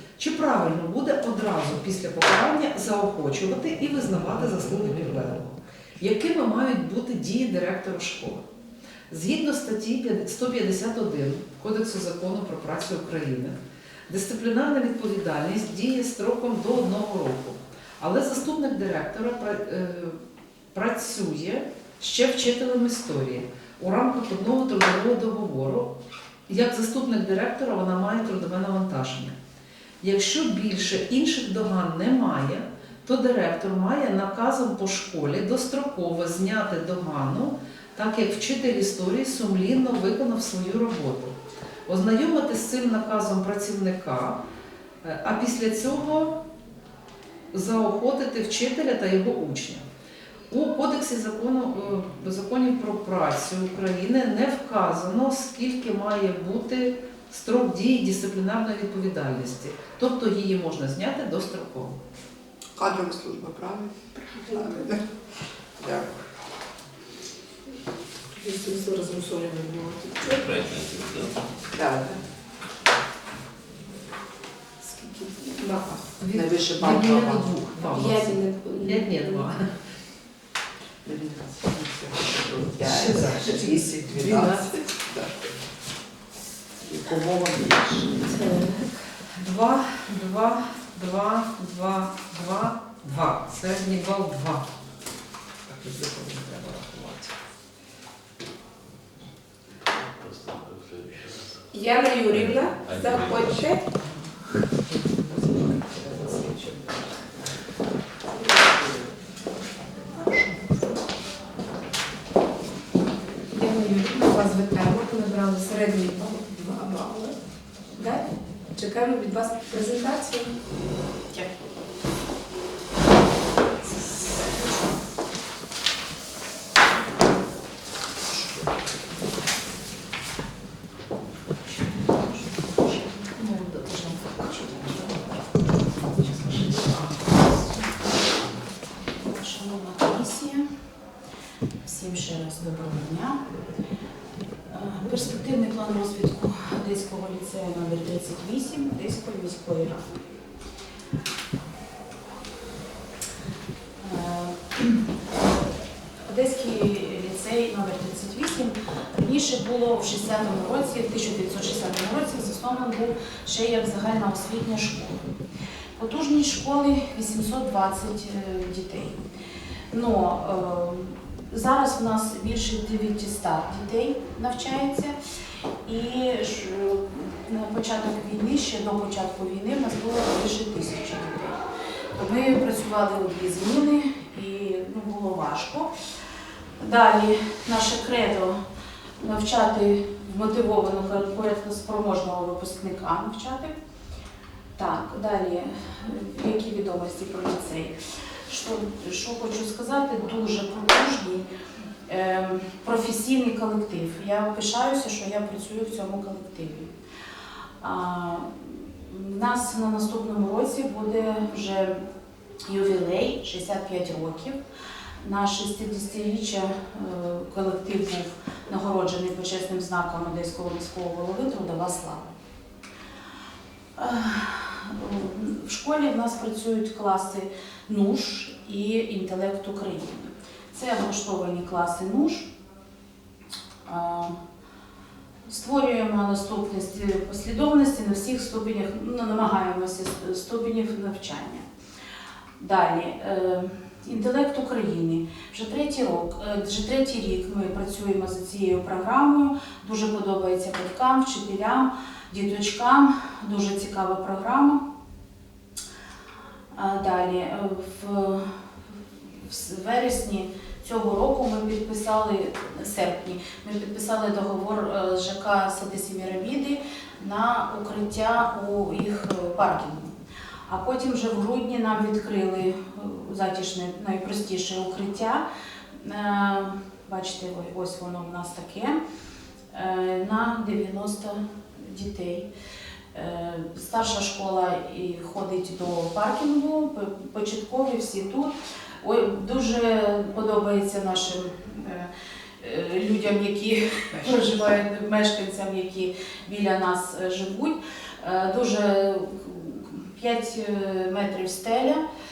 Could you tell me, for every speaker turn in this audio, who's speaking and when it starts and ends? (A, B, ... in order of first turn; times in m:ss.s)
0:00.2-0:08.5 A
0:09.1-0:20.2 A
0:20.7-0:25.9 A
0:26.5-0:29.4 A
0:30.0-0:44.4 A
0:45.0-0:46.4 A
0:47.5-0:49.8 A
0:50.5-1:02.0 A
1:02.8-1:05.0 B
1:04.5-1:04.8 C
1:05.8-1:06.2 B
1:08.3-1:10.6 C
1:10.4-1:11.4 D
1:11.7-1:12.2 B
1:14.8-1:16.0 C
1:16.2-1:19.8 A
1:16.3-1:17.4 B
1:17.8-1:19.5 C
1:21.0-1:25.5 B
1:22.8-1:24.7 A
1:26.8-1:28.3 B
1:28.2-1:29.0 C
1:29.4-1:34.6 A
1:36.3-1:37.3 A
1:40.2-1:43.8 D
1:41.7-1:43.8 C
1:53.5-1:57.4 C
1:57.9-2:00.5 C
2:13.4-2:13.9 A
2:13.9-2:15.2 E
2:19.1-2:20.7 E
2:21.8-2:23.4 E
2:24.7-2:30.1 E
2:34.0-2:35.0 E
2:36.3-2:45.2 E
2:46.0-2:49.2 E
2:49.9-2:55.2 E
2:55.8-3:01.6 E
3:02.2-3:05.9 E
3:06.8-3:08.6 E
3:09.2-3:13.7 E
3:14.8-3:18.0 E
3:18.5-3:21.5 E
3:22.1-3:26.9 E
3:27.8-3:32.0 E
3:32.7-3:34.6 E
3:35.2-3:42.3 E
3:44.0-3:52.5 E
3:53.8-3:54.4 E
3:55.5-4:01.7 E
4:02.6-4:14.8 E
4:16.7-4:18.5 E
4:19.4-4:30.2 E
4:30.7-4:39.0 E
4:39.7-4:42.5 E
4:43.1-5:02.0 E
4:54.1-4:54.5 B